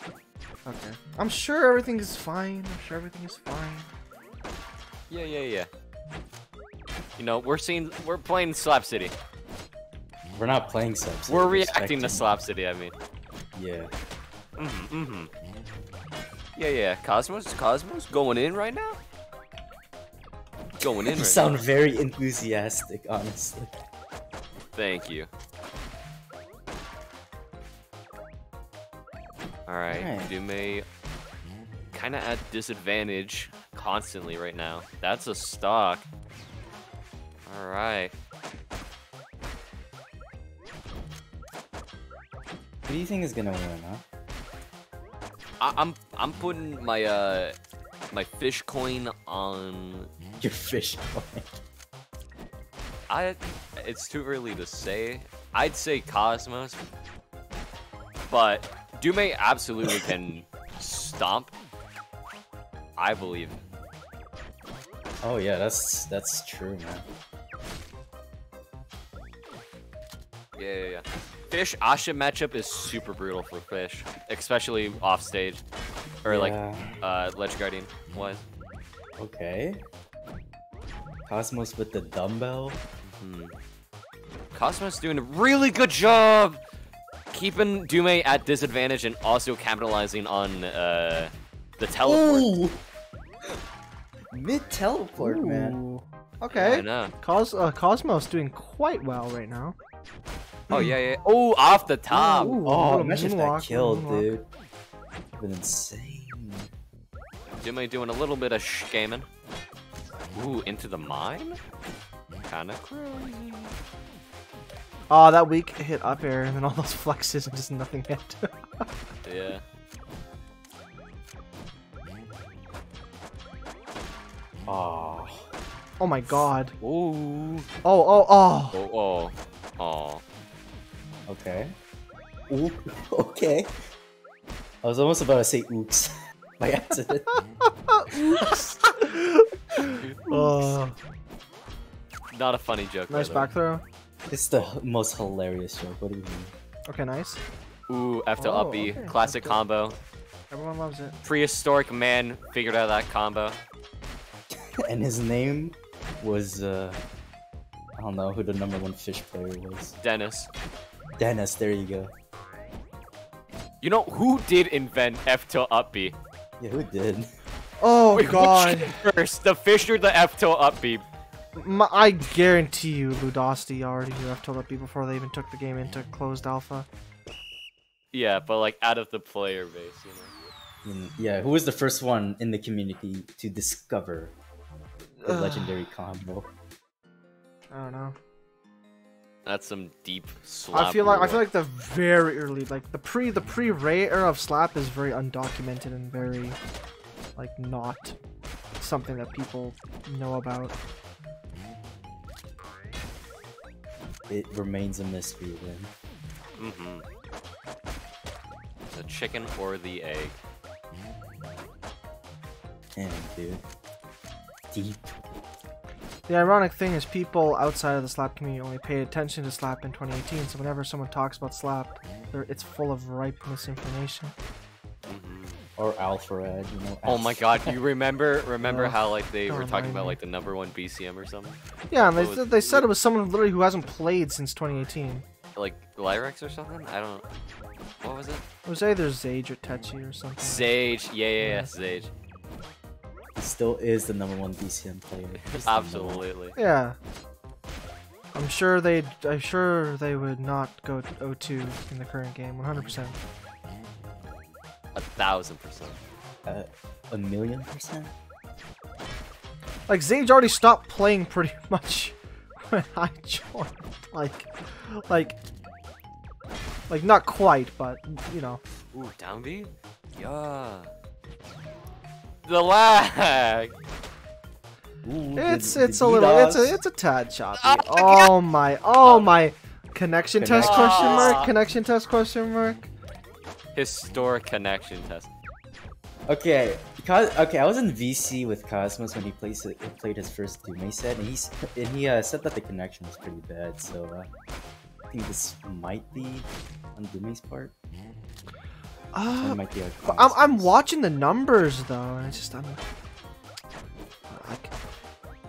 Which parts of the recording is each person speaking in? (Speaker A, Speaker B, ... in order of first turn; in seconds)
Speaker A: 0.6-3.9, 95.2-99.8, 100.7-100.9, 102.1-104.3, 115.1-118.8, 126.0-126.7, 127.8-128.8, 137.3-140.9, 143.1-143.8, 146.9-147.4, 148.4-149.6, 150.5-151.2, 167.8-169.0, 171.6-176.9, 185.2-185.8, 187.7-188.2, 190.7-196.6, 197.3-198.2, 198.8-200.8, 216.3-224.3, 228.6-230.2, 231.9-235.2, 238.7-240.7, 241.4-241.7, 246.6-247.0, 248.3-253.2, 259.9-265.4, 266.9-268.6, 275.3-282.9, 299.1-302.8, 304.3-304.7
Speaker B: 5.1-5.7, 7.2-9.1, 11.3-12.9, 14.6-15.3, 16.6-19.0, 20.8-21.6, 24.7-25.3, 29.7-30.8, 31.9-36.0, 37.5-38.1, 45.6-47.5, 48.1-50.1, 53.1-56.8, 58.3-61.5, 63.0-63.6, 70.5-75.6, 76.2-78.4, 83.2-83.5, 84.5-86.6, 87.3-92.5, 96.5-97.1, 100.7-102.6, 107.6-109.3, 110.3-111.6, 112.5-113.7, 119.2-119.6, 126.8-127.7, 128.7-130.2, 140.0-140.8, 142.3-143.5, 147.9-150.0, 151.2-153.6, 160.0-160.5, 163.8-166.2, 168.1-171.0, 178.1-180.3, 189.4-191.4, 206.6-207.0, 208.9-210.3, 225.1-225.6, 227.0-231.6, 232.2-232.9, 235.6-237.2, 238.0-238.4, 240.4-242.1, 245.4-246.6, 254.9-256.0, 268.9-270.9, 272.4-273.7, 277.6-278.3, 279.0-279.3, 280.6-281.5, 283.7-285.3
Speaker C: 10.3-12.3, 13.6-13.9, 20.8-23.9, 29.9-30.3, 42.9-44.0, 50.4-51.6, 65.2-67.0, 76.2-77.0, 79.2-79.8, 81.3-82.8, 92.0-92.8, 94.3-95.8, 102.4-104.5, 105.4-106.7, 124.7-125.5, 131.3-131.7, 132.5-133.7, 134.8-137.3, 144.3-146.5, 154.8-157.0, 158.0-159.9, 161.2-162.1, 166.6-167.3, 180.8-184.3, 185.2-186.5, 204.3-205.9, 212.9-213.6, 214.7-215.2, 225.8-227.8, 243.3-246.2, 256.4-258.1, 275.0-276.8, 280.4-281.4, 286.3-294.3, 295.1-297.7, 299.4-300.7